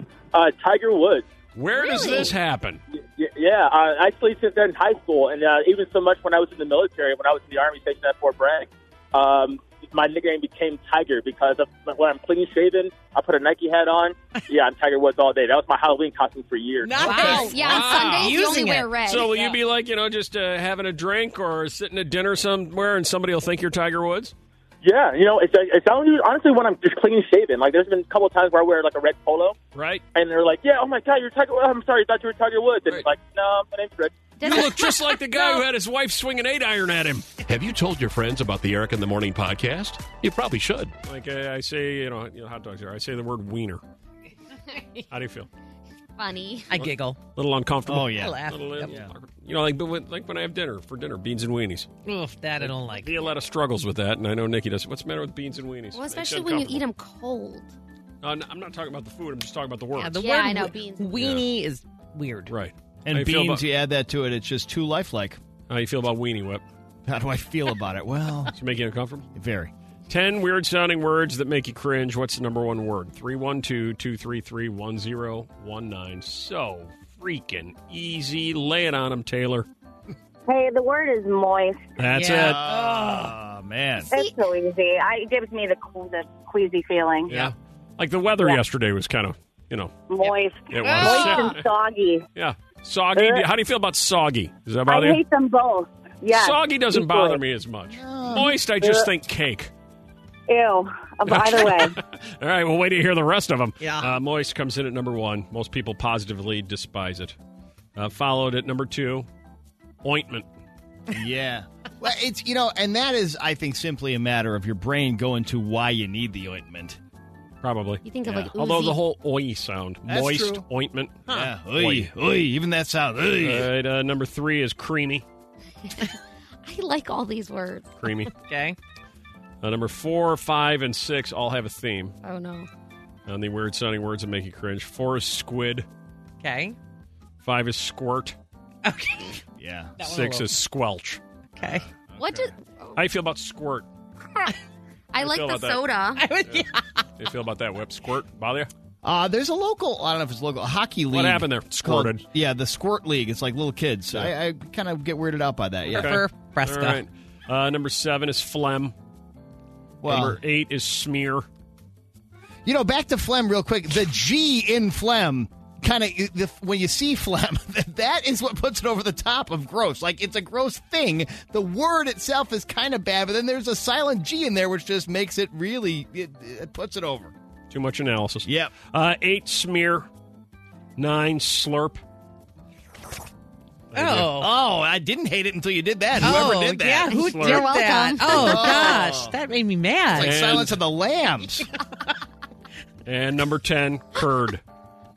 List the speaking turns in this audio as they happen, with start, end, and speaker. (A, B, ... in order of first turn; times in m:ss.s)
0:00.3-0:01.3 A
0:01.6-0:02.8 B
0:01.7-0:02.3 C
0:03.0-0:17.4 A
0:16.8-0:19.6 D
0:17.0-0:19.4 C
0:17.3-0:18.4 B
0:19.0-0:24.3 B
0:24.8-0:29.6 A
0:29.7-0:30.0 B
0:30.2-0:34.1 A
0:34.4-0:35.7 C
0:34.4-0:37.3 B
0:37.4-0:40.9 E
0:41.1-0:43.8 B
0:45.1-0:45.5 B
0:46.2-0:46.7 C
0:46.7-0:47.2 D
0:46.8-0:51.9 B
0:47.9-0:49.1 F
0:48.1-0:48.9 D
0:52.0-0:53.3 D
0:52.6-0:56.8 B
0:55.9-0:57.7 C
0:58.2-1:00.2 B
1:00.0-1:02.5 D
1:00.2-1:01.1 C
1:01.2-1:01.4 B
1:02.5-1:03.6 B
1:03.0-1:05.4 F
1:05.7-1:06.6 B
1:07.1-1:08.5 F
1:08.6-1:09.3 B
1:09.4-1:09.7 F
1:10.1-1:19.7 B
1:20.5-1:21.8 G
1:22.0-1:22.7 B
1:22.1-1:23.1 D
1:22.4-1:24.1 F
1:24.0-1:24.4 C
1:24.1-1:27.4 G
1:27.3-1:31.7 B
1:30.1-1:32.2 G
1:31.0-1:31.6 C
1:32.4-1:35.2 B
1:33.1-1:33.5 G
1:34.9-1:37.4 G
1:36.3-1:39.7 B
1:37.9-1:38.5 F
1:38.8-1:39.1 G
1:40.5-1:42.0 G
1:41.3-1:47.4 B
1:43.8-1:44.2 D
1:48.0-1:49.3 B
1:50.0-1:50.5 B
1:51.1-1:57.0 F
1:57.6-2:02.1 B
1:58.0-1:59.0 C
2:00.1-2:00.6 F
2:01.3-2:03.7 F
2:03.4-2:05.2 B
2:05.9-2:07.9 C
2:08.0-2:08.3 B
2:08.3-2:08.8 D
2:09.6-2:12.2 B
2:12.2-2:12.7 C
2:13.3-2:15.9 B
2:16.4-2:16.8 D
2:17.4-2:18.4 B
2:18.8-2:19.4 D
2:19.6-2:19.9 F
2:20.0-2:20.5 D
2:20.0-2:21.2 B
2:21.6-2:21.8 D
2:22.1-2:22.5 F
2:22.2-2:23.0 C
2:23.0-2:23.9 B
2:25.1-2:26.2 C
2:25.2-2:25.8 B
2:26.2-2:27.0 D
2:26.4-2:28.7 B
2:29.0-2:36.2 F
2:31.1-2:32.2 B
2:35.9-2:37.0 D
2:35.9-2:38.9 B
2:40.0-2:40.4 F
2:40.0-2:41.5 B
2:42.6-2:57.3 F
2:57.7-3:00.1 B
2:58.5-2:58.7 F
3:01.0-3:02.0 B
3:03.9-3:04.3 B
3:04.0-3:04.5 D
3:04.4-3:07.2 F
3:06.2-3:10.3 D
3:06.2-3:06.5 B
3:07.1-3:09.0 C
3:07.1-3:07.7 B
3:08.3-3:09.4 F
3:10.2-3:11.7 F
3:10.2-3:10.8 B
3:13.1-3:14.6 B